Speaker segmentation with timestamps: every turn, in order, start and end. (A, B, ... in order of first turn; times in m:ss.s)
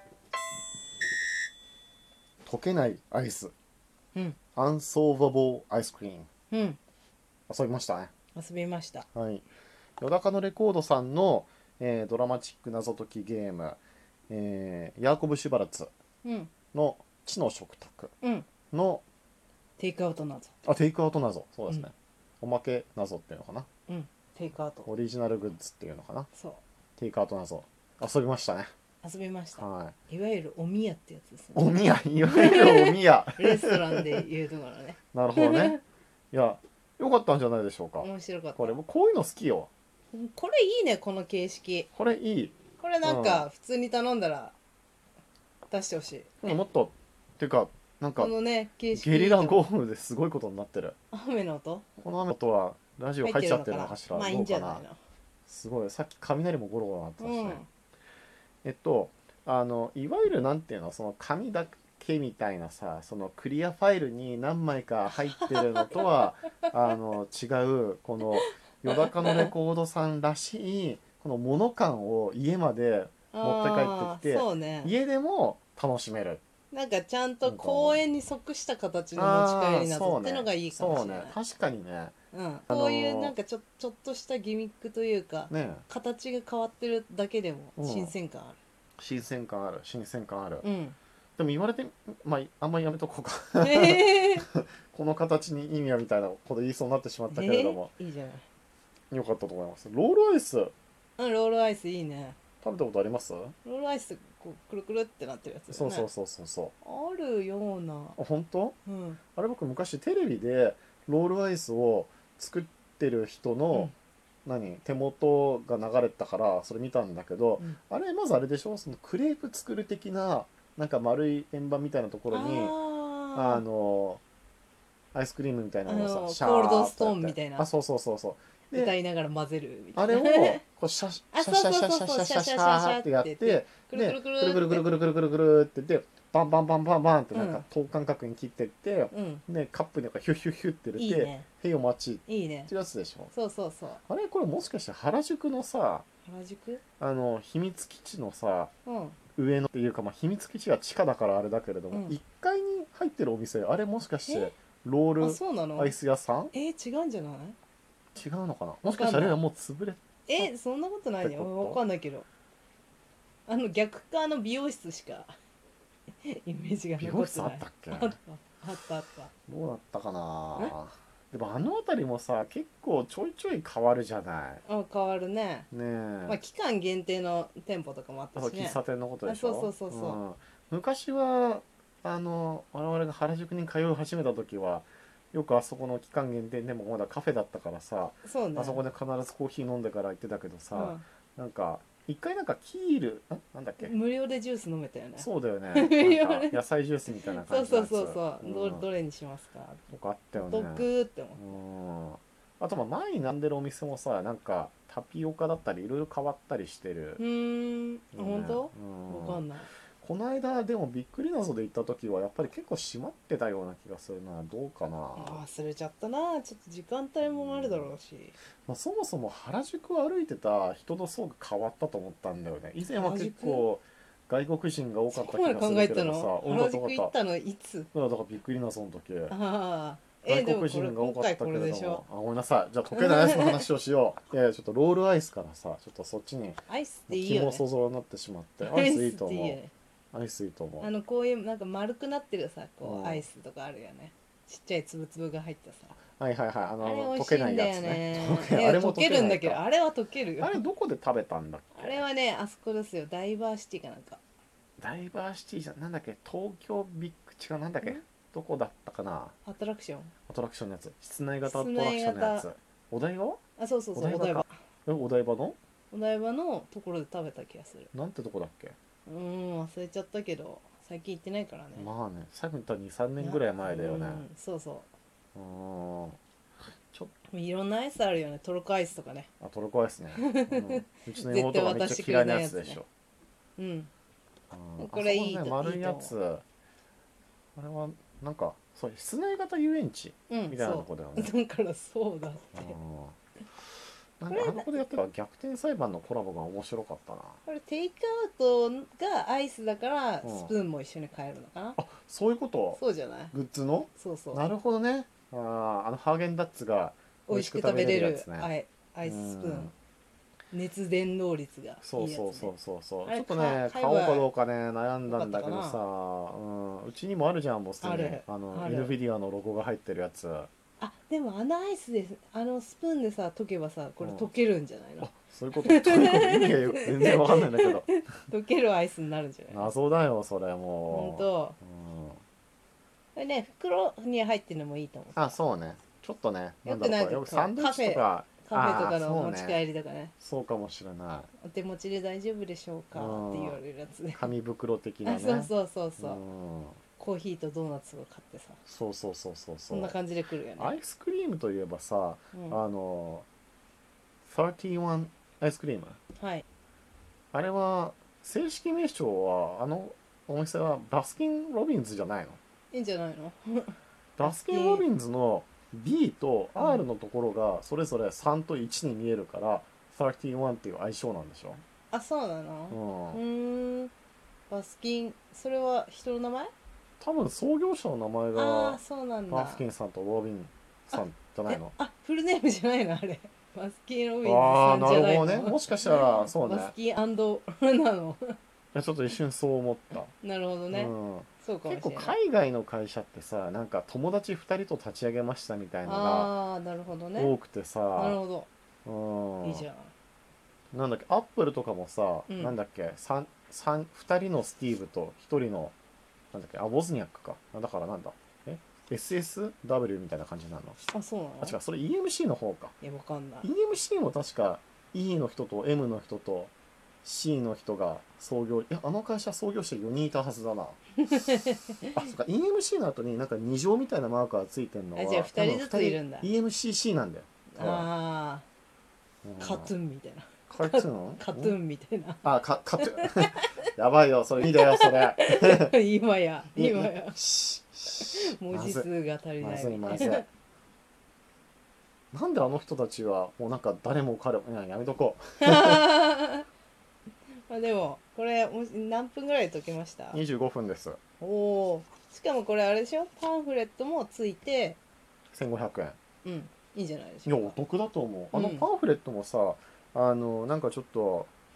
0:02.4-0:03.5 A
0:04.6-0:06.3 A
0:06.5-0:06.8 B
0:07.5-0:08.1 A
0:08.4-0:09.1 B
0:09.1-0:09.4 A
0:10.0-0:15.9 A
0:16.2-0:16.5 B
0:16.7-0:18.1 A
0:18.2-0:18.5 B
0:18.7-0:19.0 A
0:19.8-0:20.6 B
0:20.6-0:23.7 A
0:23.9-0:24.9 B
0:24.8-0:26.3 A
0:26.3-0:26.6 B
0:27.0-0:28.7 A
0:29.0-0:35.8 B
0:29.6-0:30.0 A
0:31.6-0:34.2 A
0:35.1-0:35.8 A
0:36.3-0:39.7 A
0:38.0-0:38.7 B
0:40.1-0:41.9 B
0:41.9-0:43.5 A
0:42.8-0:44.6 B
0:45.7-0:46.6 B
0:46.4-0:48.3 A
0:48.2-0:49.7 B
0:48.9-0:51.0 A
0:51.1-0:51.9 B
0:52.0-0:54.8 A
0:53.2-0:55.0 B
0:55.5-0:57.6 A
0:57.2-0:57.7 B
0:58.6-1:16.4 A
1:05.1-1:06.1 B
1:09.0-1:09.5 B
1:13.3-1:14.9 B
1:16.7-1:21.4 B
1:17.4-1:18.0 A
1:19.2-1:22.1 A
1:22.3-1:28.6 B
1:22.7-1:23.3 A
1:25.5-1:25.8 A
1:27.8-1:28.1 A
1:29.0-1:30.7 A
1:30.6-1:31.0 B
1:31.4-1:37.9 A
1:33.6-1:34.5 B
1:37.3-1:38.5 B
1:39.1-1:40.7 A
1:41.2-1:42.4 B
1:42.6-1:43.6 A
1:43.6-1:46.1 B
1:45.7-1:46.7 A
1:46.8-1:48.2 B
1:48.2-1:48.8 A
1:48.8-1:49.2 B
1:49.4-1:53.9 A
1:54.4-2:02.8 A
2:02.3-2:03.6 B
2:03.3-2:04.2 A
2:05.1-2:08.9 A
2:05.9-2:07.7 B
2:08.7-2:10.6 B
2:10.0-2:23.3 A
2:11.3-2:14.9 B
2:17.3-2:17.6 B
2:19.1-2:19.4 B
2:21.0-2:21.5 B
2:22.3-2:22.7 B
2:23.3-2:24.0 B
2:24.1-2:26.0 A
2:26.3-2:26.8 B
2:27.0-2:28.7 A
2:28.8-2:29.2 B
2:29.4-2:36.5 A
2:31.9-2:32.2 B
2:34.3-2:34.5 B
2:35.2-2:36.0 B
2:36.5-2:37.6 B
2:38.2-2:40.5 A
2:38.9-2:39.4 B
2:40.3-2:42.3 B
2:41.2-2:41.8 A
2:43.5-2:45.4 B
2:46.2-2:49.3 B
2:47.0-2:48.2 A
2:49.5-2:54.6 A
2:54.7-2:55.7 B
2:55.7-2:56.4 A
2:56.3-3:00.2 B
2:58.4-3:13.9 A
3:08.2-3:08.8 B
3:10.7-3:11.0 B
3:13.8-3:21.5 B
3:15.2-3:18.8 A
3:19.9-3:27.2 A
3:27.2-3:29.7 B
3:28.2-3:29.4 A
3:30.0-3:35.4 A
3:35.2-3:38.4 B
3:37.2-3:37.9 A
3:38.7-3:47.2 A
3:42.9-3:43.7 B
3:45.1-3:47.9 B
3:47.9-3:49.4 A
3:49.3-3:52.0 B
3:50.2-3:59.6 A
3:52.9-3:53.6 B
3:56.7-3:57.6 B
3:58.6-3:59.7 B
4:00.1-4:00.9 A
4:00.8-4:06.0 B
4:02.8-4:03.2 A
4:06.1-4:09.6 A
4:06.8-4:10.6 B
4:10.4-4:12.1 A
4:11.7-4:14.2 B
4:14.8-4:19.4 A
4:19.4-4:20.1 B
4:20.3-4:23.4 A
4:21.4-4:22.5 B
4:23.6-4:24.5 B
4:24.0-4:25.6 A
4:25.9-4:27.9 B
4:27.9-4:28.8 A
4:29.1-4:31.9 B
4:31.8-4:34.2 A
4:33.2-4:34.9 B
4:35.4-4:36.2 A
4:37.3-4:39.3 B
4:39.4-4:42.9 A
4:40.2-4:42.8 B
4:43.6-4:43.9 B
4:44.5-4:46.4 A
4:44.8-4:46.1 B
4:47.6-4:51.3 A
4:50.3-4:52.8 B
4:52.5-4:53.2 A
4:54.2-4:57.4 A
4:54.3-4:54.8 B
4:57.5-5:01.8 B
5:00.2-5:00.5 A
5:01.8-5:02.8 A
5:02.8-5:03.3 B
5:03.3-5:08.5 A
5:04.0-5:04.4 B
5:07.3-5:09.7 B
5:09.0-5:09.7 A
5:10.5-5:12.5 B
5:11.8-5:20.5 A
5:13.1-5:14.3 B
5:15.1-5:15.8 B
5:17.8-5:19.0 B
5:20.8-5:25.1 B
5:24.0-5:24.3 A
5:25.0-5:27.9 A
5:25.6-5:29.7 B
5:29.5-5:32.2 A
5:30.9-5:31.6 B
5:33.2-5:35.3 B
5:35.2-5:39.6 A
5:36.6-5:40.1 B
5:40.2-5:41.3 A
5:41.4-5:44.3 B
5:42.9-5:43.6 A
5:44.1-5:46.8 A
5:45.0-5:46.2 B
5:47.0-5:48.6 B
5:48.7-5:50.0 A
5:49.7-5:50.7 B
5:50.6-5:53.3 A
5:52.3-5:52.6 B
5:54.3-5:56.0 A
5:56.2-5:56.4 B
5:57.3-6:02.4 A
6:02.7-6:04.8 B
6:04.2-6:11.6 A
6:06.6-6:06.8 B
6:11.9-6:13.9 B
6:12.7-6:13.2 A
6:14.5-6:16.5 B
6:17.0-6:21.7 A
6:18.3-6:19.6 B
6:20.9-6:28.4 B
6:24.2-6:26.7 A
6:28.7-6:30.1 A
6:30.2-6:32.2 B
6:30.7-6:36.4 A
6:35.8-6:37.3 B
6:37.2-6:38.2 A
6:38.0-6:38.5 B
6:38.8-6:39.7 A
6:39.4-6:39.9 B
6:40.7-6:45.7 A
6:42.3-6:42.6 B
6:46.3-6:50.8 A
6:50.9-6:51.6 B
6:51.4-6:52.8 A
6:52.8-6:53.5 B
6:53.4-6:56.5 A
6:57.0-7:01.3 A
7:01.0-7:02.0 B
7:01.9-7:07.9 A
7:05.0-7:06.3 B
7:07.5-7:08.4 B
7:09.2-7:09.7 A
7:09.4-7:12.2 B
7:10.5-7:11.6 A
7:12.2-7:15.7 A
7:12.8-7:13.5 B
7:14.4-7:17.2 B
7:16.6-7:18.9 A
7:17.9-7:20.3 B
7:19.4-7:20.3 A
7:22.1-7:25.9 A
7:25.4-7:26.5 B
7:27.5-7:30.2 B
7:30.1-7:31.0 A
7:31.2-7:34.8 B
7:35.3-7:36.0 A
7:36.2-7:37.6 B
7:37.3-7:41.3 A
7:38.3-7:38.7 B